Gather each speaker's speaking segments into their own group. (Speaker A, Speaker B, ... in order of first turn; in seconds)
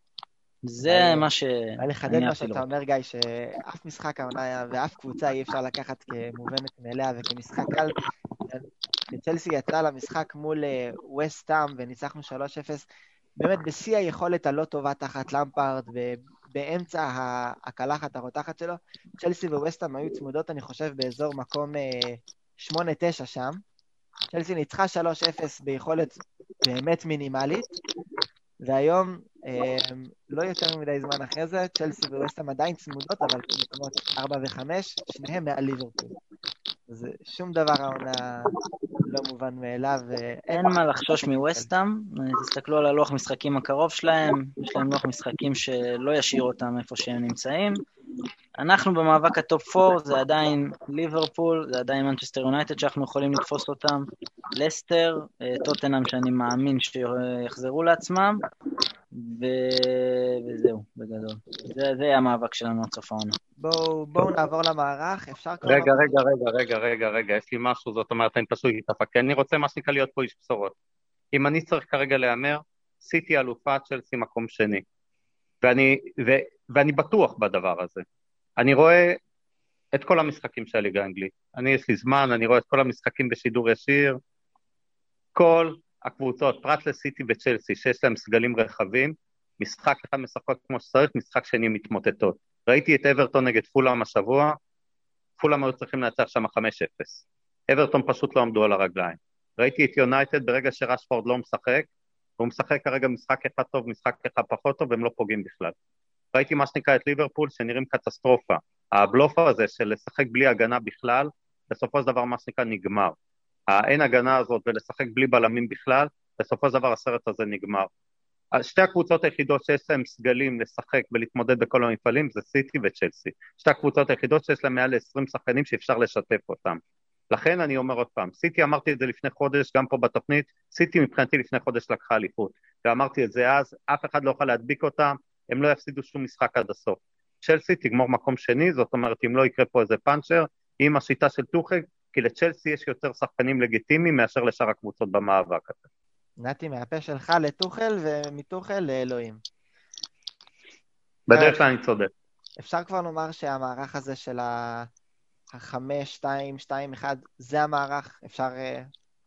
Speaker A: 0.7-2.7, 40.5-47.8, 48.6-58.5, 59.1-63.4
Speaker B: 0.8-1.3, 1.8-12.9, 13.4-23.6, 24.3-27.7, 28.6-36.1, 36.9-38.5, 39.1-41.7, 63.6-66.2, 146.4-149.4, 151.3-151.6, 152.6-154.9, 155.5-158.9
Speaker C: 65.7-70.8, 71.3-74.8, 75.6-78.0, 78.6-79.2, 79.9-84.2, 85.3-94.5, 95.4-101.9, 102.4-105.8, 106.3-113.2, 113.7-117.9, 118.5-126.8, 127.3-145.8, 151.3-152.1